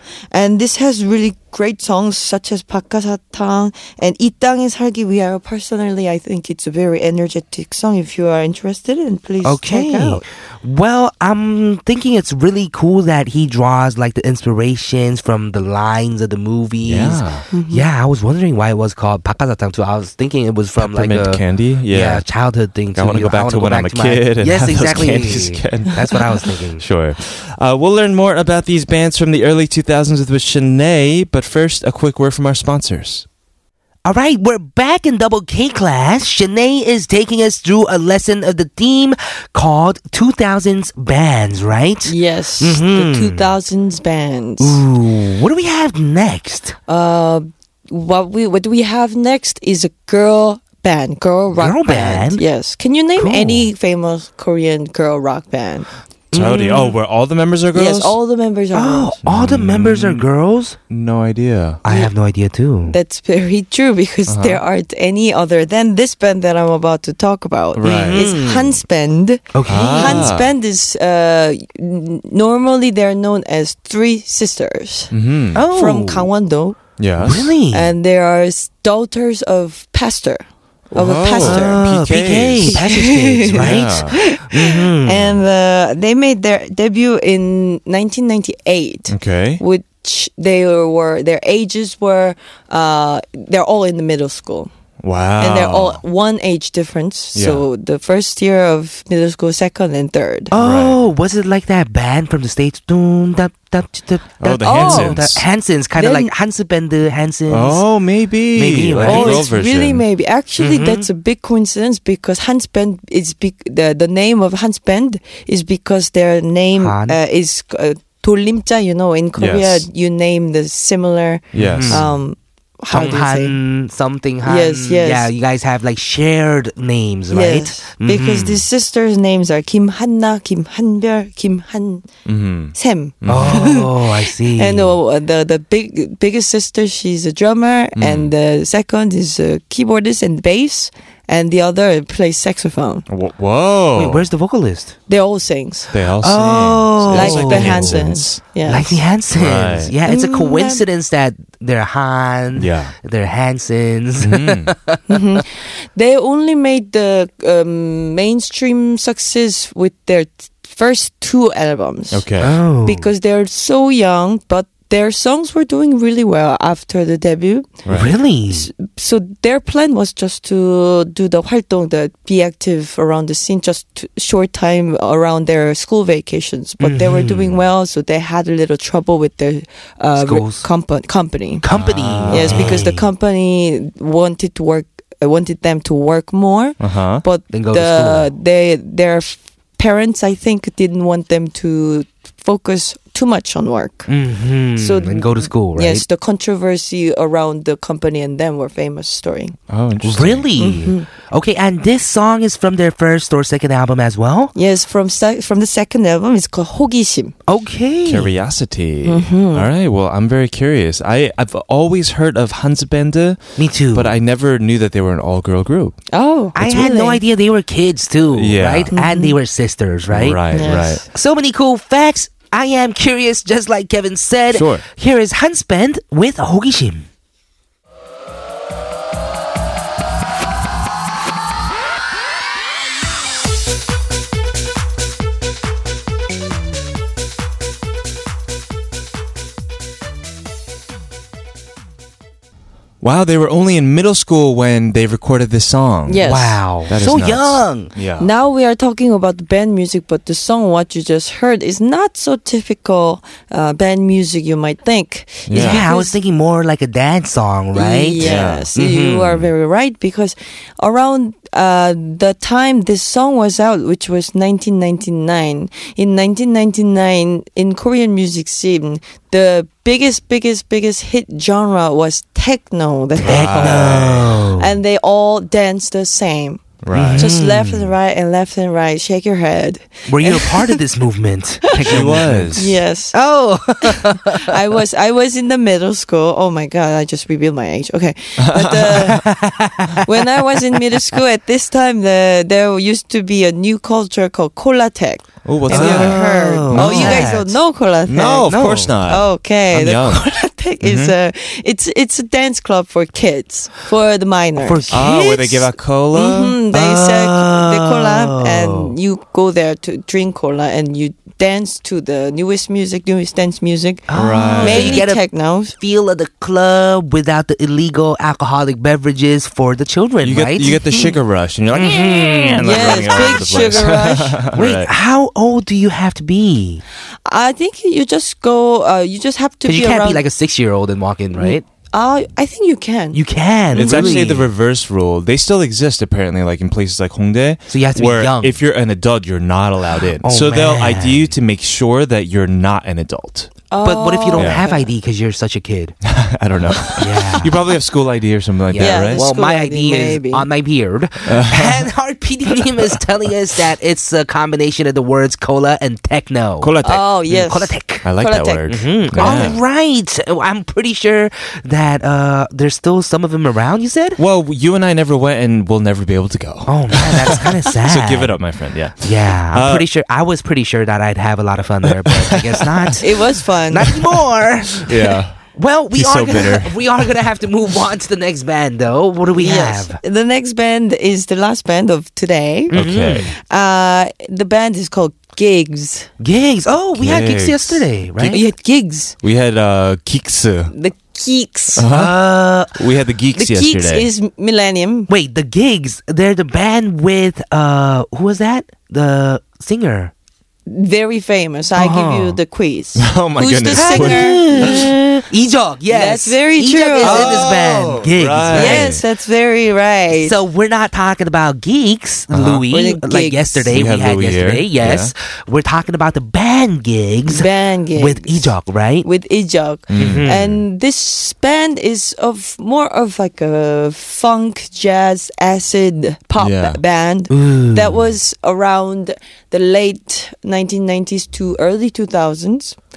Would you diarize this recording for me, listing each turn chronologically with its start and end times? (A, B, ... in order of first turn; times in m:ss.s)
0:00.3-0:10.2 A
0:09.4-0:26.8 B
0:16.8-0:17.4 C
0:17.5-0:17.8 A
0:20.8-0:22.3 C
0:22.9-0:26.2 C
0:26.8-0:33.2 C
0:34.0-0:43.5 B
0:42.0-0:44.8 A
0:44.6-0:46.8 B
0:46.9-0:55.9 A
0:51.5-0:52.4 B
0:53.2-0:53.7 B
0:56.3-0:57.0 B
0:56.3-0:58.2 C
0:57.7-0:59.2 A
0:58.7-1:00.8 B
0:59.2-1:00.2 C
1:00.9-1:01.8 C
1:01.8-1:03.0 B
1:01.8-1:02.1 A
1:02.9-1:15.1 A
1:04.3-1:04.6 C
1:07.7-1:08.3 C
1:07.8-1:08.8 B
1:09.5-1:10.3 B
1:09.6-1:10.5 C
1:15.1-1:15.6 C
1:15.5-1:16.3 B
1:15.6-1:16.8 A
1:17.0-1:17.5 C
1:17.2-1:17.9 B
1:17.7-1:21.8 A
1:20.9-1:22.8 C
1:21.4-1:25.4 B
1:22.6-1:34.7 A
1:23.5-1:24.2 C
1:29.1-1:29.6 C
1:35.0-1:36.0 C
1:35.4-1:40.5 A
1:37.3-1:37.6 C
1:40.5-1:47.8 B
1:40.5-1:41.0 C
1:44.4-1:45.4 C
1:44.6-1:45.2 A
1:46.0-1:46.3 A
1:47.5-1:50.0 C
1:48.5-1:49.5 B
1:49.0-2:03.6 A
1:50.6-1:51.0 B
1:56.8-1:57.2 B
1:59.4-1:59.8 C
2:01.5-2:02.1 C
2:01.6-2:02.0 B
2:02.9-2:08.6 B
2:04.4-2:05.3 A
2:07.3-2:12.1 A
2:12.2-2:13.7 C
2:12.7-2:23.0 A
2:13.2-2:15.0 B
2:18.0-2:18.3 C
2:23.1-2:24.3 C
2:23.9-2:25.0 B
2:25.1-2:25.9 A
2:25.9-2:28.4 C
2:26.2-2:28.0 B
2:27.1-2:29.0 A
2:28.6-2:35.0 B
2:29.3-2:29.9 C
2:30.0-2:30.8 A
2:32.5-2:32.9 C
2:34.2-2:34.7 C
2:35.1-2:42.2 A
2:42.1-2:42.6 C
2:42.4-2:43.1 B
2:42.8-2:47.8 A
2:47.8-2:48.1 C
2:47.9-2:48.7 B
2:48.5-3:01.6 A
2:56.8-2:57.6 B
3:00.2-3:00.7 B
3:01.6-3:03.0 B
3:01.7-3:02.8 C
3:02.3-3:14.1 A
3:06.8-3:07.2 C
3:07.5-3:08.3 B
3:14.1-3:16.0 B
3:14.8-3:19.6 A
3:19.7-3:20.5 C
3:20.0-3:24.5 B
3:20.6-3:21.0 A
3:24.5-3:27.3 A
3:27.5-3:28.3 B
3:28.0-3:36.0 C
3:29.0-3:29.7 A
3:33.6-3:34.1 B
3:36.1-3:37.2 A
3:36.6-3:47.0 B
3:38.3-3:38.9 C
3:38.9-3:39.4 A
3:40.1-3:41.0 C
3:40.5-3:41.0 A
3:44.5-3:44.8 C
4:03.0-4:08.3 C
4:06.0-4:06.6 A
4:06.2-4:07.9 B
4:08.2-4:16.1 A
4:15.5-4:15.8 C
4:15.5-4:19.5 B
4:17.7-4:34.0 A
4:18.2-4:18.7 C
4:33.2-4:34.7 B
4:33.2-4:34.4 C
4:34.6-4:36.6 A
4:36.8-4:37.4 C
4:36.9-4:37.9 B
4:37.2-4:40.8 A
4:40.1-4:44.4 B
4:41.8-4:43.2 A
4:41.8-4:42.7 C
4:43.8-4:49.2 A
4:48.4-4:49.2 C
4:49.0-4:50.0 B
4:50.0-4:58.5 A
4:55.4-4:57.4 C
4:55.7-4:57.6 B
4:58.0-5:00.3 C
4:58.5-4:58.9 B
4:59.0-5:05.0 A
5:00.8-5:01.1 C
5:04.6-5:05.7 B
5:04.9-5:06.6 C
5:06.1-5:15.7 A
5:06.7-5:08.9 B
5:14.1-5:20.7 B
5:14.1-5:15.0 C
5:20.2-5:24.9 C
5:20.7-5:21.1 A
5:21.7-5:23.9 B
5:22.6-5:24.4 A
5:24.5-5:26.8 B
5:27.2-5:30.2 A
5:29.6-5:31.6 B
5:31.4-5:33.2 A
5:33.1-5:34.5 B
5:33.7-5:34.3 A
5:33.7-5:43.5 C
5:37.7-5:38.6 B
5:40.2-5:41.3 B
5:43.7-5:44.9 A
5:43.8-5:46.0 B
5:44.3-5:44.6 C
5:46.0-5:49.2 C
5:47.0-5:47.5 B
5:48.7-5:56.8 B
5:48.8-5:50.4 A
5:51.2-5:51.9 C
5:56.6-5:57.3 C
5:56.8-5:59.5 A
5:57.3-5:58.1 B
5:58.0-5:59.6 C
5:58.7-6:04.2 B
6:04.2-6:09.8 C
6:06.6-6:08.4 B
6:09.0-6:13.1 B
6:11.9-6:12.9 C
6:13.0-6:14.0 A
6:13.7-6:20.0 B
6:14.8-6:15.4 C
6:15.9-6:17.2 C
6:19.4-6:22.7 A
6:22.7-6:23.3 B
6:22.7-6:23.3 C
6:23.4-6:26.1 A
6:26.2-6:28.4 B
6:26.9-6:27.9 C
6:28.2-6:29.1 A
6:29.2-6:30.7 C
6:30.7-6:31.8 A
6:31.7-6:32.2 C
6:31.9-6:32.8 B
6:32.7-6:34.1 C
6:33.4-6:35.1 A
6:35.1-6:40.1 B
6:40.7-6:44.9 A
6:41.7-6:42.4 B
6:43.0-6:44.9 C
6:43.7-6:48.9 B
6:45.9-6:47.4 A
6:47.0-6:49.0 C
6:48.5-6:50.4 A
6:50.2-6:59.0 B
6:52.3-6:52.6 C
6:52.7-6:53.7 A
6:53.7-6:55.1 C
6:57.3-7:12.8 A
6:59.9-7:00.6 C
7:00.0-7:00.4 B
7:06.4-7:06.8 C
7:07.3-7:08.0 B